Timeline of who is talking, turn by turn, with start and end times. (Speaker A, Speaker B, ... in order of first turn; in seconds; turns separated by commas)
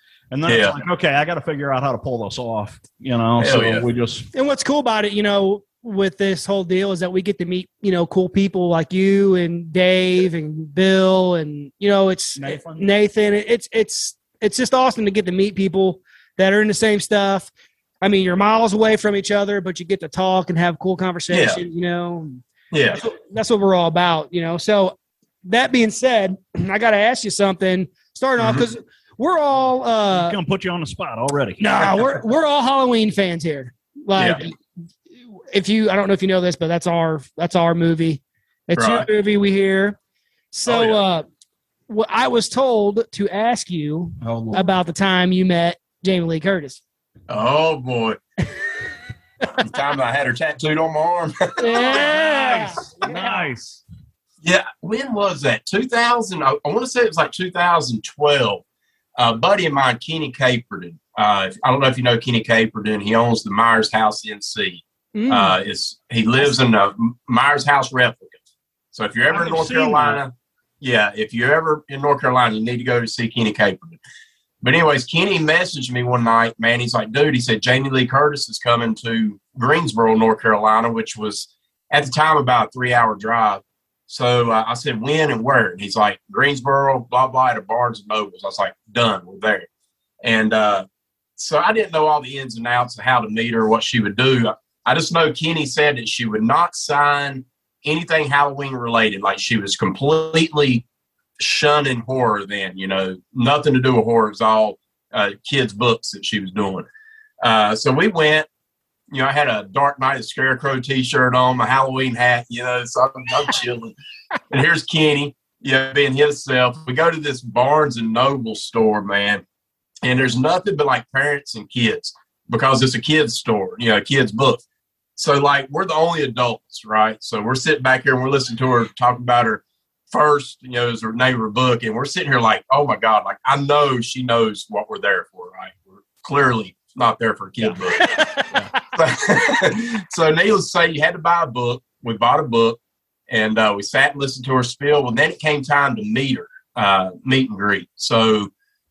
Speaker A: 0.3-4.3, Speaker B: 0.5-0.8, Speaker B: 3.4-3.8, Speaker C: 4.3-17.5, Speaker A: 12.4-12.9, Speaker C: 18.0-22.4, Speaker B: 21.3-21.6, Speaker B: 22.7-23.0, Speaker C: 22.9-30.4, Speaker B: 28.4-28.6, Speaker A: 30.1-31.6, Speaker C: 31.6-34.6, Speaker B: 34.2-34.4, Speaker C: 35.5-40.0, Speaker B: 38.8-39.1, Speaker C: 40.5-41.2, Speaker B: 40.7-41.0, Speaker C: 41.9-46.8, Speaker A: 44.2-44.7, Speaker B: 47.3-48.2, Speaker B: 49.6-52.0, Speaker C: 51.6-53.5, Speaker A: 51.7-53.8, Speaker B: 54.4-58.6, Speaker B: 59.2-68.4, Speaker C: 65.2-65.6, Speaker B: 68.9-74.0, Speaker A: 69.3-70.2, Speaker B: 74.6-89.7, Speaker B: 90.2-90.8, Speaker B: 91.4-100.8, Speaker B: 101.4-106.9, Speaker B: 107.4-108.5, Speaker B: 109.1-114.0, Speaker B: 114.5-119.4, Speaker B: 120.0-124.6, Speaker B: 125.2-142.8, Speaker C: 137.9-138.6, Speaker B: 143.3-148.5